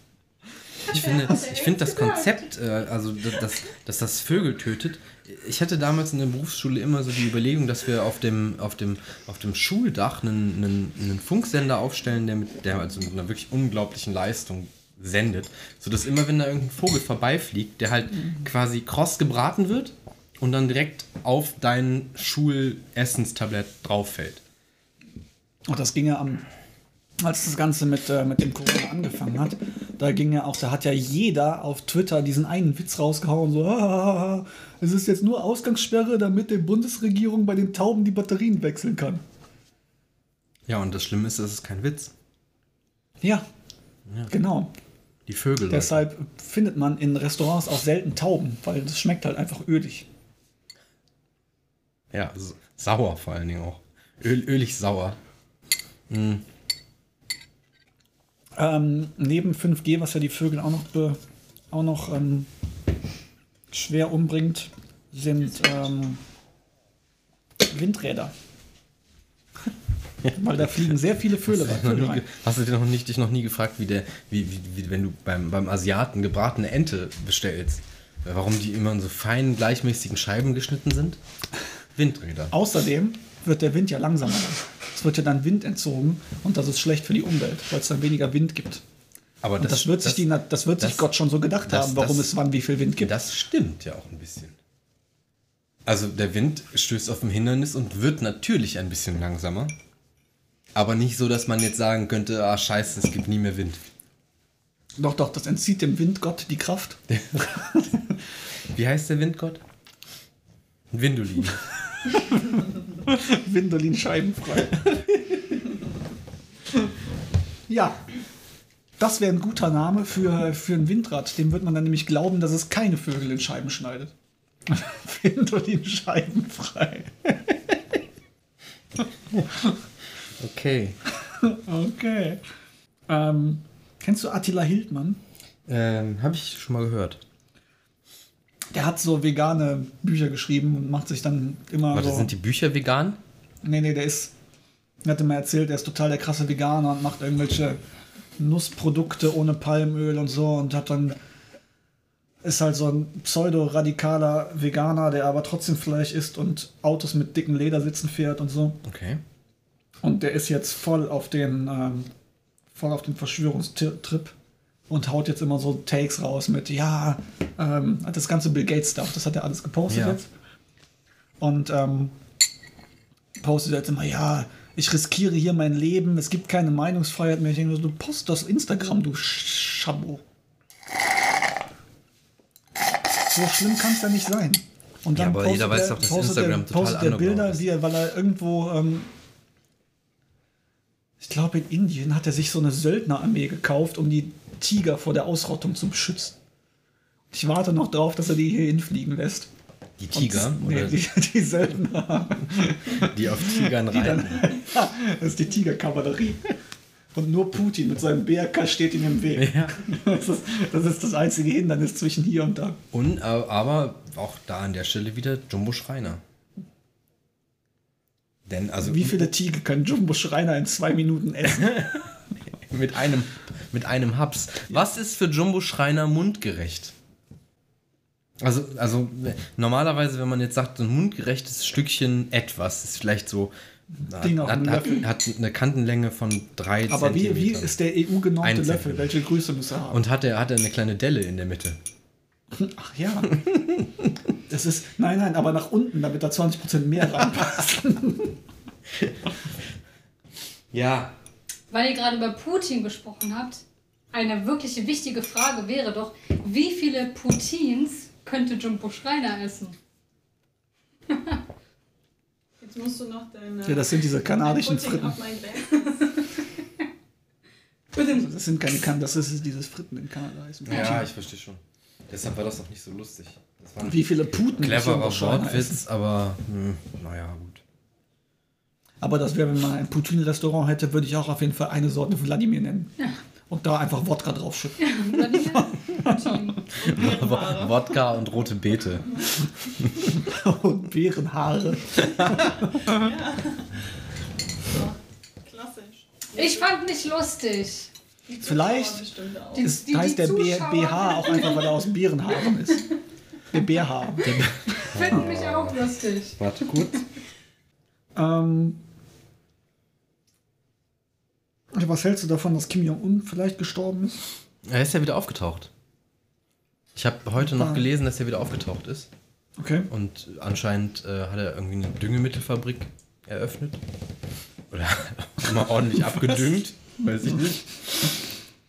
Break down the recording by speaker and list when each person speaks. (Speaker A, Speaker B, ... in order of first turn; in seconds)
Speaker A: 0.9-24.4, 40.7-42.1, 45.3-46.0, 52.1-55.2, 56.1-56.4, 70.2-81.2, 82.0-82.5, 89.4-91.1, 91.6-92.3, 93.0-94.5, 95.8-99.7, 100.7-103.8, 107.1-107.6, 108.7-109.6, 110.9-111.6, 130.4-131.0, 135.7-137.2, 141.9-143.2, 158.8-159.2, 169.9-170.2, 185.1-187.7, 200.0-201.0, 202.9-204.7, 209.3-209.9, 212.9-216.2, 218.5-219.3, 221.4-222.1, 222.6-226.9, 228.4-233.5, 234.1-237.8, 238.4-239.1, 239.9-241.8, 243.3-244.1, 248.9-249.3, 250.7-251.1, 270.6-277.6, 286.8-289.1, 289.8-290.1, 304.2-305.8, 306.4-307.0, 314.6-315.7, 316.9-319.1, 319.9-323.8, 324.7-328.1
Speaker B: 0.9-2.4, 251.7-253.6, 254.1-259.7, 261.1-261.4, 284.8-286.6, 296.3-297.9, 299.6-301.7, 304.8-306.8
Speaker C: 25.7-26.4, 27.2-39.2, 44.3-44.7, 45.7-50.1, 58.6-61.2, 61.7-62.5, 63.7-66.2, 67.7-68.3, 70.3-72.2, 82.5-88.8, 89.6-93.1, 105.0-107.0, 107.6-108.0, 112.1-115.4, 117.7-118.0, 119.0-124.1, 124.7-127.1, 131.4-132.4, 133.1-135.2, 138.7-142.3, 143.6-144.3, 145.0-147.8, 148.4-151.2, 152.4-158.8, 160.0-162.1, 162.7-164.3, 164.9-170.3, 171.4-172.1, 173.4-180.2, 183.2-189.1, 191.2-196.3, 197.3-199.5, 200.1-206.5, 207.1-212.8, 218.8-222.1, 234.1-235.1, 236.9-240.0, 242.5-243.4, 244.5-248.4, 263.6-265.2, 268.0-271.1, 273.8-275.8, 279.0-282.9, 283.5-286.6, 290.1-293.1, 298.4-299.0, 299.6-302.9, 303.5-304.4, 308.1-308.8, 311.7-314.2, 317.4-317.9, 319.6-319.9
Speaker D: 262.6-266.3, 286.8-288.2, 292.3-293.8, 294.6-296.7, 298.3-299.8